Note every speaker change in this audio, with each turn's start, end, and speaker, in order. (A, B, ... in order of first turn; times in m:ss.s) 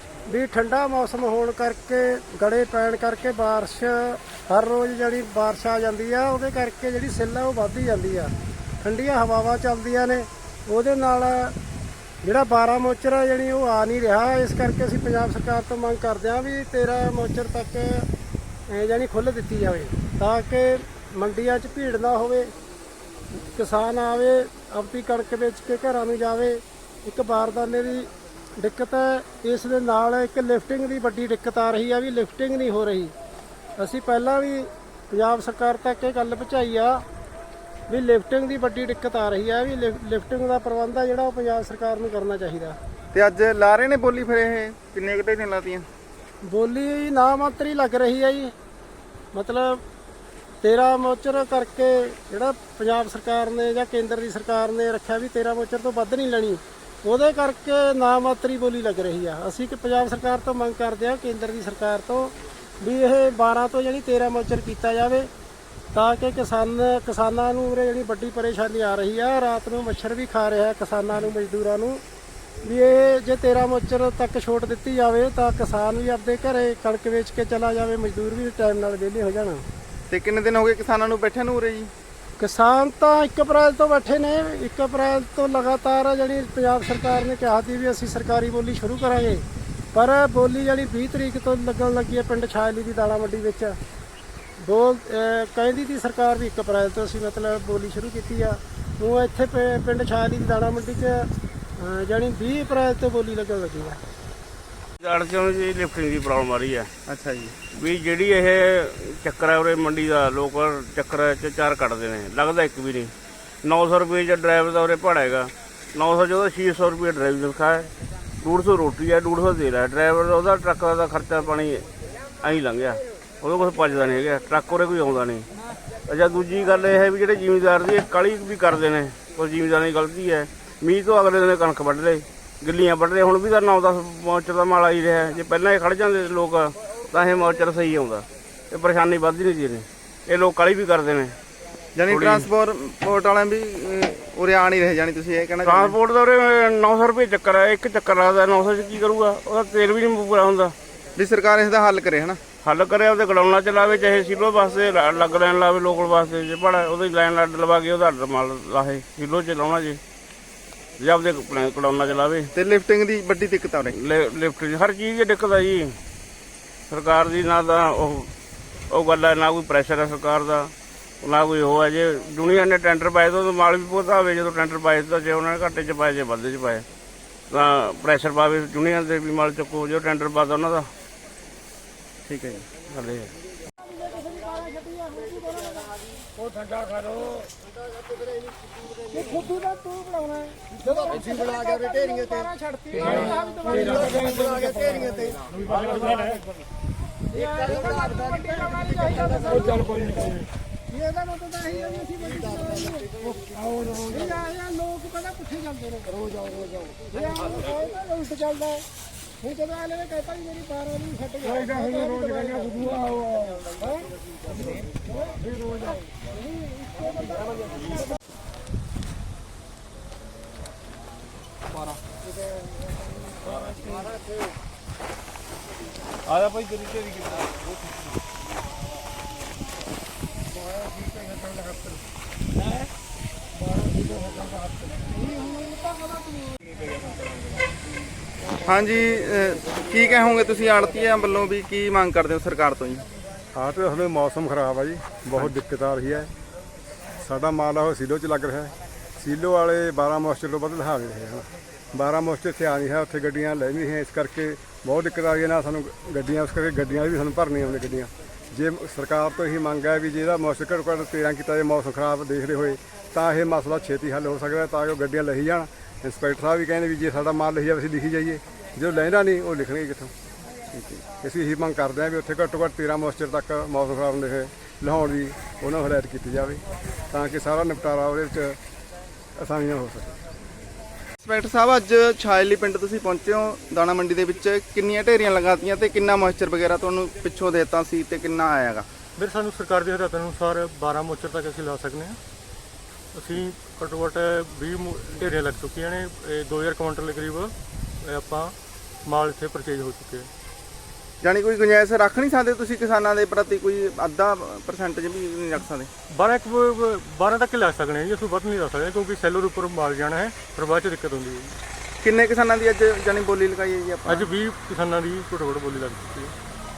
0:00.3-0:11.6 A
0:12.2-0:18.1 A
0:18.7-0:22.5 A
0:23.3-0:33.1 A
0:33.8-0:37.0 A
0:37.9-0:42.8 A
0:43.1-0:45.9 B
0:46.4-0:48.5 A
0:49.3-0:49.8 A
0:50.6-1:05.3 A
1:05.9-1:12.0 A
1:12.6-1:19.6 A
1:20.1-1:21.9 B
1:22.4-1:33.8 A
1:34.6-1:44.0 A
1:45.0-1:46.9 C
1:47.1-1:47.6 B
1:47.7-1:53.1 C
1:53.6-1:57.9 C
1:58.4-2:01.8 C
2:02.4-2:05.5 C
2:06.1-2:21.4 C
2:22.0-2:26.0 B
2:22.1-2:22.5 C
2:25.6-2:30.8 C
2:31.2-2:32.4 B
2:32.6-2:40.0 C
2:41.0-2:42.5 C
2:42.6-2:44.0 B
2:43.9-2:46.0 C
2:46.9-2:48.3 C
2:48.9-2:56.8 C
2:57.5-3:00.9 C
3:02.3-3:02.7 B
3:02.9-3:03.3 C
3:03.8-3:06.0 A
3:09.1-3:16.2 A
3:17.3-3:23.2 A
3:24.0-3:26.3 A
3:27.0-3:28.9 A
3:29.4-3:33.8 A
3:36.3-3:37.7 A
3:58.6-4:03.1 B
4:03.5-4:06.3 D
4:07.2-4:30.1 D
4:30.7-4:31.0 B
4:31.2-4:38.6 D
4:39.4-4:40.2 D
4:41.2-4:48.9 B
4:49.2-4:52.2 E
4:53.1-4:58.6 E
4:59.1-5:00.3 E
5:01.2-5:05.9 B
5:06.1-5:11.6 E
5:12.0-5:14.3 B
5:14.0-5:16.3 E